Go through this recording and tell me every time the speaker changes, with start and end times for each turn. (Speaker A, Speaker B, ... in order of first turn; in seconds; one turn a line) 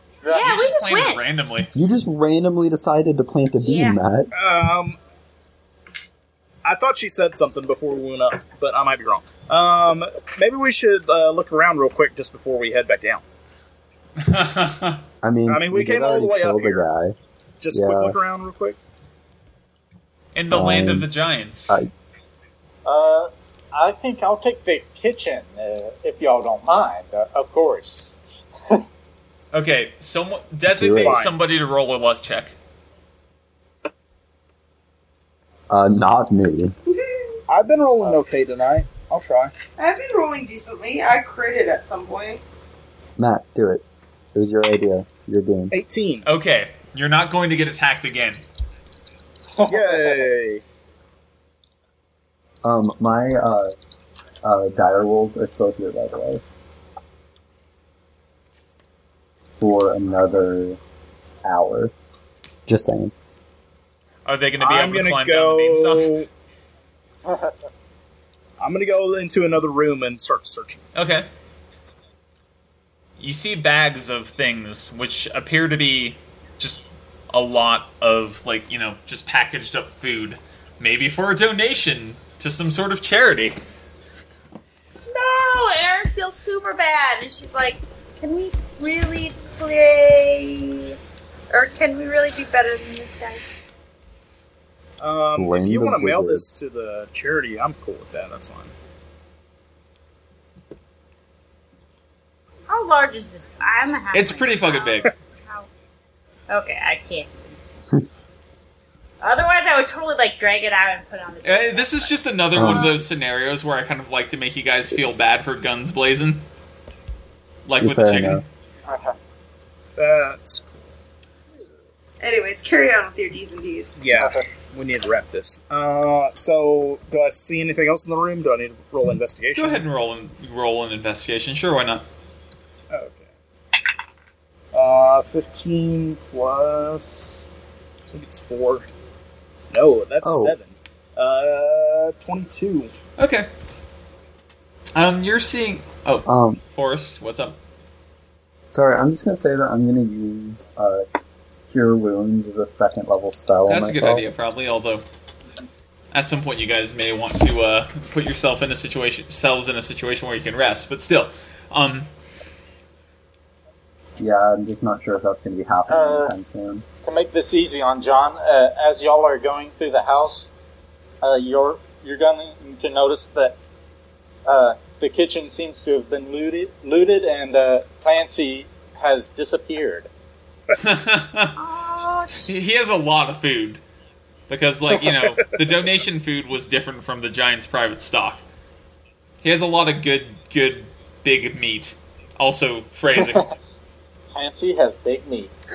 Speaker A: 0.2-0.7
Speaker B: 0.3-1.2
Speaker C: 0.3-1.7
Speaker D: 1.7-4.3
Speaker B: 3.6-4.0
Speaker E: 4.3-5.0
Speaker E: 6.6-13.2
Speaker C: 14.2-15.0
Speaker D: 15.2-17.1
Speaker E: 15.5-16.9
Speaker E: 17.6-18.8
Speaker D: 17.7-18.2
Speaker C: 20.3-21.8
Speaker D: 20.5-21.1
Speaker A: 22.8-28.8
Speaker C: 29.5-32.5
Speaker D: 30.7-31.2
Speaker E: 31.0-31.3
Speaker D: 35.7-36.7
Speaker F: 36.9-37.4
Speaker E: 37.5-39.5
Speaker F: 39.8-42.4
Speaker D: 43.2-45.7
Speaker E: 45.7-46.3
Speaker C: 46.2-48.4
Speaker A: 49.6-50.1
Speaker E: 49.6-50.6
Speaker D: 52.6-53.7
Speaker D: 54.4-56.4
Speaker D: 59.6-60.8
Speaker D: 61.4-61.9
Speaker D: 62.7-63.1
Speaker C: 64.2-66.2
Speaker E: 64.6-66.3
Speaker A: 67.2-67.5
Speaker E: 68.6-70.9
Speaker C: 70.9-71.3
Speaker C: 73.2-83.6
Speaker B: 85.1-91.0
Speaker B: 91.5-93.5
Speaker E: 95.0-98.7
Speaker D: 95.3-96.5
Speaker B: 102.7-105.7
Speaker C: 104.1-105.1
Speaker B: 106.5-107.6
Speaker B: 109.2-112.9
Speaker C: 111.4-116.4
Speaker D: 112.5-113.0
Speaker C: 117.7-118.4
Speaker D: 117.8-118.4
Speaker A: 118.9-119.2
Speaker E: 120.0-120.9
Speaker F: 122.2-124.0
Speaker E: 124.0-129.8
Speaker A: 124.1-124.4
Speaker C: 129.6-132.1
Speaker E: 132.9-133.3
Speaker E: 134.7-137.4
Speaker E: 138.1-138.8
Speaker E: 139.7-142.9
Speaker D: 140.2-140.6
Speaker C: 143.2-143.5
Speaker C: 144.9-147.6
Speaker D: 146.2-146.6
Speaker D: 148.7-151.0
Speaker D: 151.6-154.2
Speaker C: 153.7-155.0
Speaker C: 156.1-162.1
Speaker D: 164.2-166.8
Speaker A: 165.9-166.3
Speaker A: 167.0-170.5
Speaker A: 171.2-173.6
Speaker A: 174.4-180.1
Speaker C: 180.8-181.6
Speaker B: 181.6-182.6
Speaker C: 182.4-183.8
Speaker C: 184.5-188.4
Speaker C: 189.4-193.5
Speaker A: 193.2-193.4
Speaker A: 194.3-195.5